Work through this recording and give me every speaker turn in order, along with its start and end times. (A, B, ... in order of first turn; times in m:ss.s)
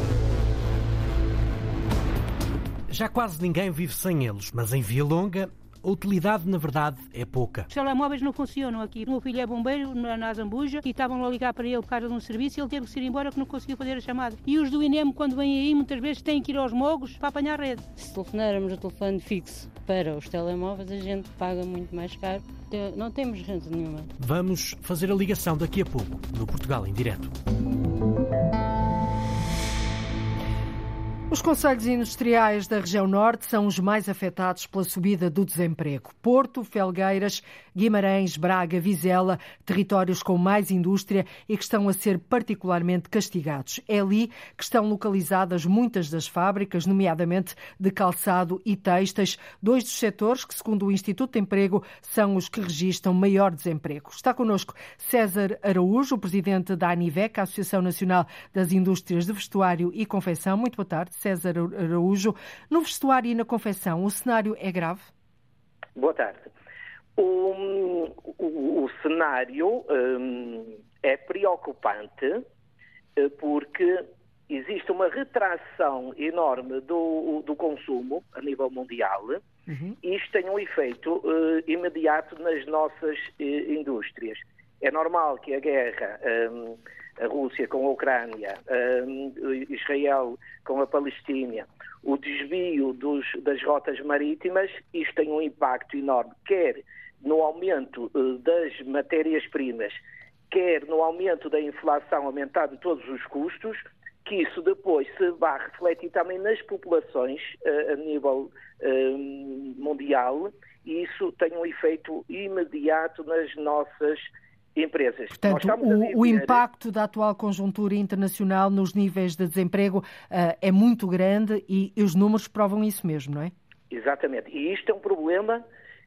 0:03.2-0:04.6 A
0:05.3-0:07.5 A
0:07.7-0:17.8 B
0:18.0-0:24.1 C
0:24.2-0:27.2 A
0:31.3-1:05.1 D
1:06.0-1:06.5 E
1:07.2-1:12.4 E
1:13.2-1:19.4 E
1:19.7-1:20.0 D
1:20.0-1:40.0 E
1:40.5-1:56.6 E
1:55.3-2:03.5 D
2:03.9-2:05.6 E